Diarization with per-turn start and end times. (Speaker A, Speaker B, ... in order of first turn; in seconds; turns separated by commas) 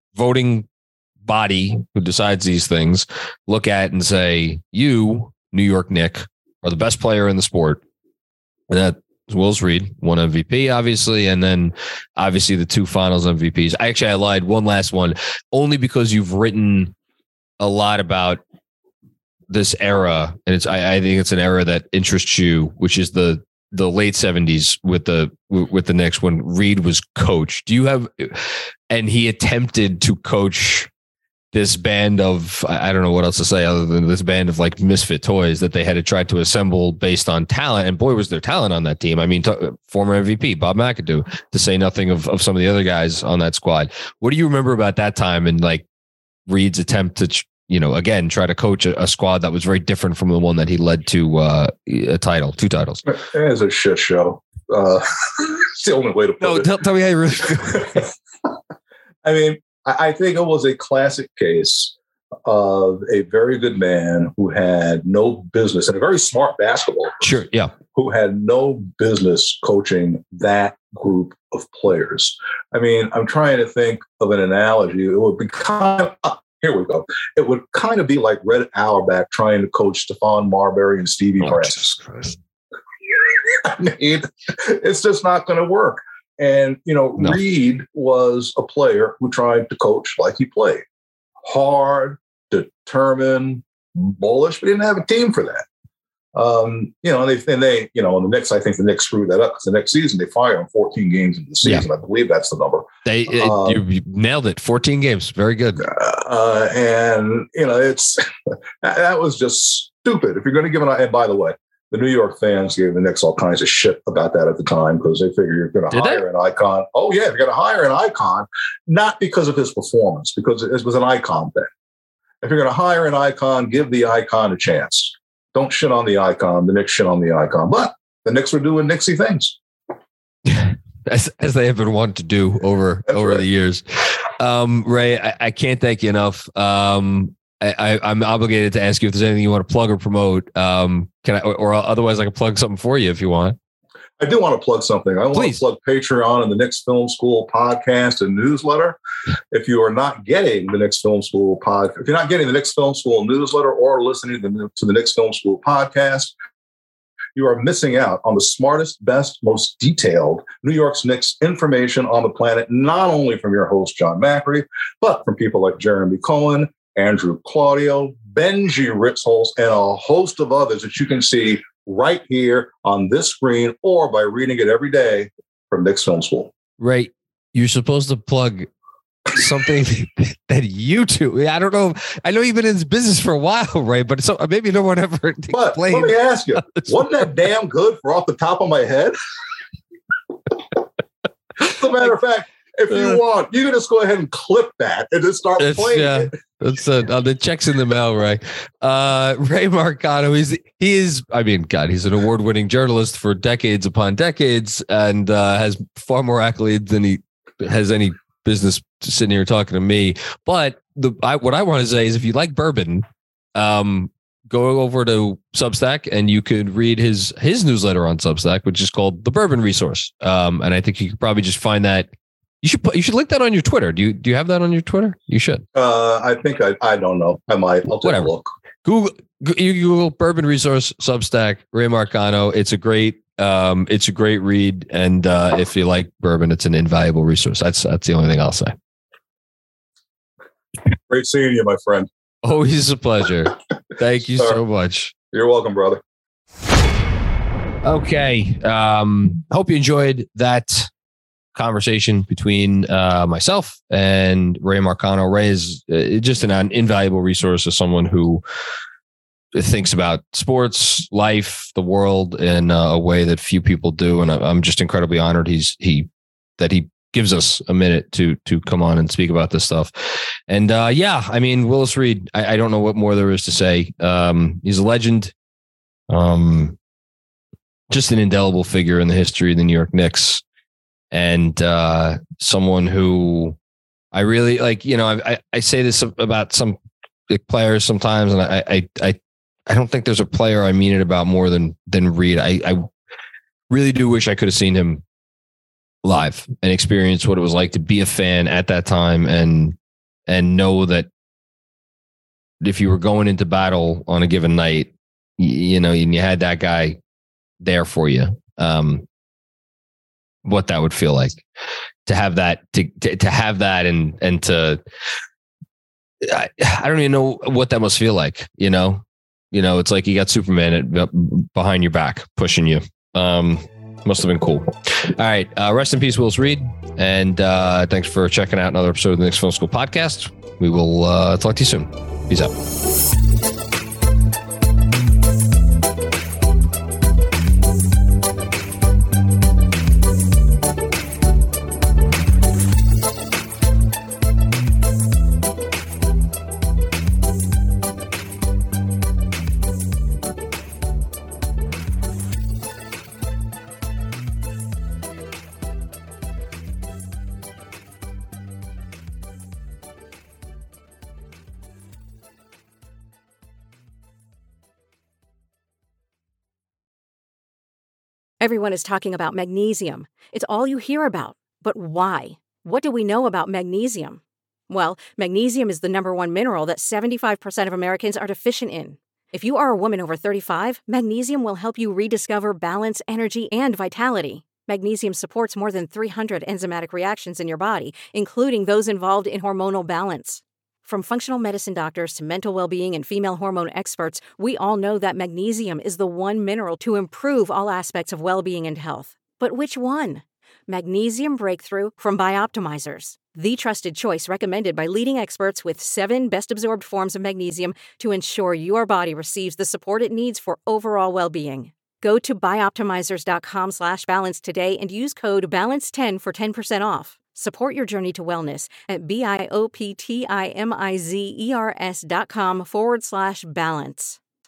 Speaker A: 0.1-0.7, Speaker A: 1.2-7.8, Speaker A: 8.7-16.9, Speaker A: 17.6-18.4, Speaker A: 19.5-30.9, Speaker A: 31.5-45.9, Speaker A: 46.5-53.0, Speaker B: 53.1-56.7, Speaker A: 56.4-58.1, Speaker B: 57.5-58.1, Speaker B: 59.2-61.9, Speaker B: 62.5-67.3, Speaker A: 67.2-67.7, Speaker B: 67.9-82.0, Speaker A: 81.4-82.3, Speaker B: 83.2-90.8, Speaker B: 91.4-95.6, Speaker B: 96.3-103.8, Speaker A: 103.0-105.9, Speaker B: 105.8-121.7, Speaker A: 115.9-116.2, Speaker B: 122.4-129.6, Speaker A: 130.4-143.6, Speaker B: 133.1-133.4, Speaker B: 144.2-149.0, Speaker A: 145.3-145.6, Speaker B: 149.5-156.3, Speaker B: 157.3-176.5, Speaker A: 176.8-178.7, Speaker A: 179.3-187.3, Speaker B: 185.5-189.1, Speaker B: 191.6-196.3, Speaker A: 192.9-193.2, Speaker A: 195.6-222.1, Speaker A: 222.6-225.6, Speaker B: 225.7-228.5, Speaker A: 228.0-228.3, Speaker A: 228.8-238.7, Speaker B: 241.1-242.1, Speaker A: 242.4-245.1, Speaker B: 245.3-246.0, Speaker A: 247.8-250.9, Speaker A: 251.5-258.4, Speaker A: 259.5-275.3, Speaker A: 276.1-276.8, Speaker A: 277.9-280.4, Speaker A: 281.1-283.6, Speaker A: 284.1-286.8, Speaker A: 287.3-292.9, Speaker A: 293.7-295.0, Speaker A: 296.0-299.8, Speaker A: 300.3-301.1, Speaker A: 302.6-307.0, Speaker A: 307.6-309.1, Speaker A: 310.4-311.4, Speaker A: 312.1-314.8, Speaker A: 316.2-332.5, Speaker C: 368.4-424.2